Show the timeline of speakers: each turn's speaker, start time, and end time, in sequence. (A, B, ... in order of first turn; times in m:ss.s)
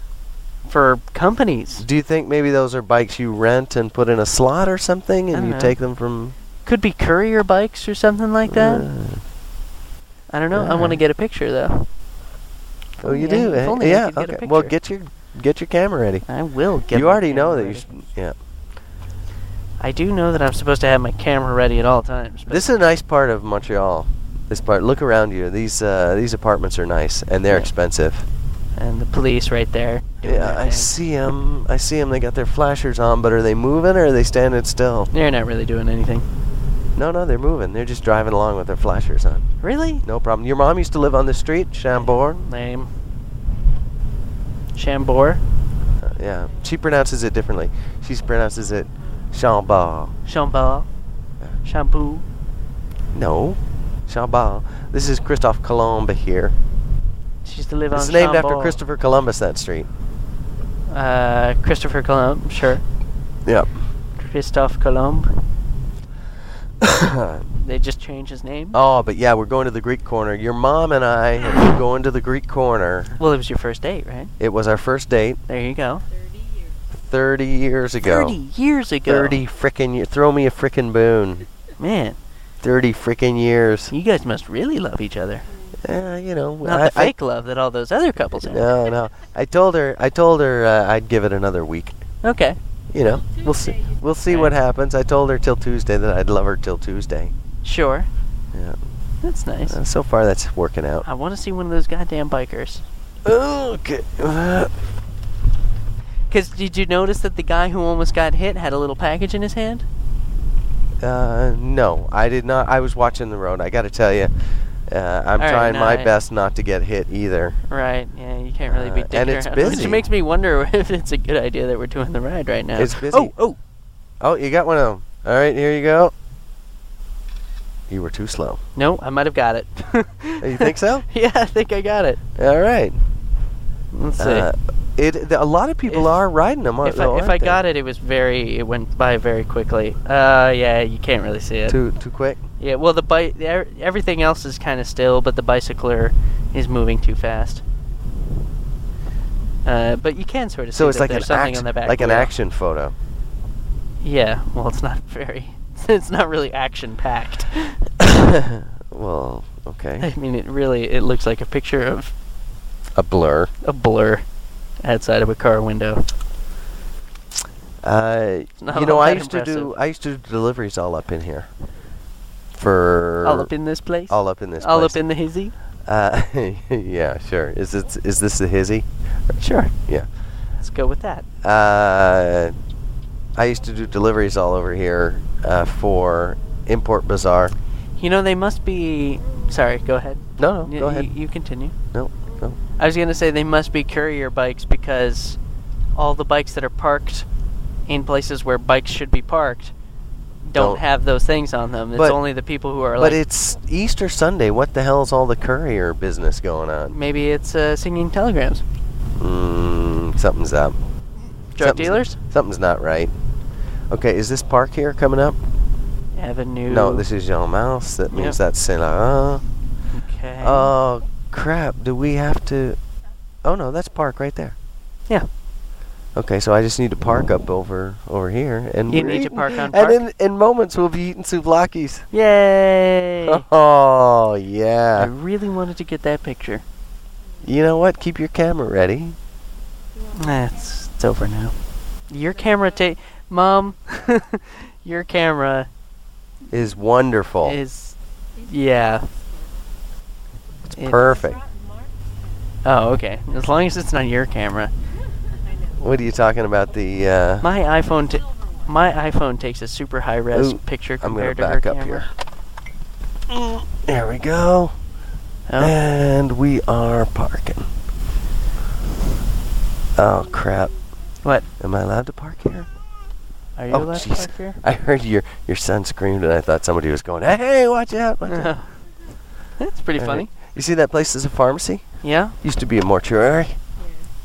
0:00.6-0:01.8 A
0:01.8-0:06.3 B
0:05.3-0:05.8 A
0:06.6-0:08.9 A
0:08.5-0:09.2 B
0:10.3-0:11.9 A
0:10.5-0:11.0 B
0:13.0-0:16.3 B
0:13.0-0:14.7 A
0:16.3-0:17.8 A
0:16.9-0:18.3 B
0:19.8-0:22.6 A
0:22.5-0:28.2 B
0:28.7-0:30.9 A
0:30.2-0:35.1 B
0:35.1-0:36.3 A
0:36.9-0:39.5 B
0:39.6-0:40.0 A
0:40.0-0:42.4 B
0:41.9-0:42.9 A
0:44.7-0:45.4 A
0:46.0-0:50.1 B
0:50.2-0:50.9 A
0:51.6-0:52.2 A
0:53.1-0:56.6 B
0:57.4-0:58.8 A
0:57.9-0:59.9 B
1:00.9-1:02.8 A
1:03.4-1:03.7 B
1:04.2-1:05.4 A
1:06.8-1:07.4 B
1:07.6-1:08.8 A
1:08.7-1:13.2 B
1:13.2-1:14.3 A
1:14.4-1:15.4 B
1:15.5-1:16.0 A
1:16.0-1:16.9 C
1:16.9-1:18.4 B
1:18.0-1:19.4 A
1:19.1-1:21.4 B
1:21.8-1:22.2 A
1:22.6-1:23.9 B
1:23.9-1:25.4 A
1:25.5-1:25.8 C
1:25.8-1:27.1 B
1:26.6-1:28.7 A
1:28.4-1:32.0 B
1:32.2-1:32.6 A
1:32.9-1:37.3 B
1:33.0-1:34.2 C
1:34.3-1:34.5 A
1:37.6-1:38.1 A
1:39.2-1:39.8 A
1:39.7-1:41.0 B
1:41.0-1:42.8 A
1:43.2-1:44.7 B
1:46.3-1:49.8 A
1:51.0-1:57.6 B
1:55.4-1:56.1 A
1:57.7-2:03.6 A
1:58.7-2:00.0 B
2:02.8-2:03.3 B
2:04.2-2:06.1 B
2:07.9-2:08.6 B
2:08.8-2:12.2 A
2:10.4-2:11.0 B
2:12.4-2:13.0 B
2:13.9-2:14.5 A
2:14.2-2:17.6 B
2:15.9-2:16.2 A
2:16.8-2:21.8 A
2:21.7-2:22.4 B
2:22.6-2:27.6 A
2:29.6-2:32.3 A
2:30.7-2:32.9 B
2:34.0-2:37.8 A
2:38.0-2:40.1 B
2:40.0-2:42.1 A
2:42.9-2:43.5 B
2:43.6-2:44.2 A
2:44.8-2:46.1 A
2:47.8-2:51.5 B
2:48.6-2:49.7 A
2:52.5-2:53.5 B
2:53.2-2:55.5 A
2:54.1-2:55.0 B
2:55.8-2:58.8 B
2:59.4-2:59.7 A
3:00.6-3:01.2 A
3:01.4-3:02.5 B
3:03.3-3:07.5 B
3:08.0-3:11.7 A
3:10.4-3:11.1 B
3:11.9-3:12.6 B
3:12.8-3:15.4 A
3:15.9-3:17.2 A
3:17.9-3:19.7 A
3:20.4-3:23.2 A
3:20.5-3:20.8 B
3:21.9-3:22.2 B
3:23.0-3:27.0 B
3:26.9-3:28.6 A
3:29.2-3:30.8 B
3:31.5-3:32.2 A
3:31.6-3:33.1 B
3:33.9-3:35.4 B
3:36.1-3:37.0 A
3:36.7-3:39.4 B
3:38.1-3:38.4 A
3:39.9-3:40.7 A
3:40.4-3:42.8 B
3:43.4-3:44.5 B
3:46.1-3:52.0 B
3:48.9-3:50.0 A
3:52.1-3:53.4 A
3:53.2-3:55.1 B
3:55.0-3:56.6 A
3:57.4-3:59.2 B
3:59.9-4:00.9 C
4:00.1-4:01.5 A
4:02.1-4:05.7 A
4:02.2-4:02.9 C
4:06.5-4:07.6 B
4:07.4-4:09.1 A
4:08.3-4:09.5 C
4:10.6-4:11.4 B
4:10.8-4:11.2 A
4:11.0-4:12.6 C
4:12.6-4:14.7 A
4:15.3-4:16.0 C
4:15.8-4:17.5 B
4:17.4-4:22.1 A
4:18.1-4:18.8 C
4:20.3-4:22.1 B
4:23.3-4:24.8 B
4:25.5-4:25.7 A
4:25.6-4:27.7 B
4:29.9-4:30.7 B
4:31.6-4:32.7 B
4:33.6-4:34.6 A
4:33.7-4:38.5 B
4:38.3-4:38.7 A
4:39.6-4:40.3 A
4:40.0-4:41.8 B
4:42.0-4:42.3 A
4:42.4-4:43.6 B
4:43.8-4:44.1 C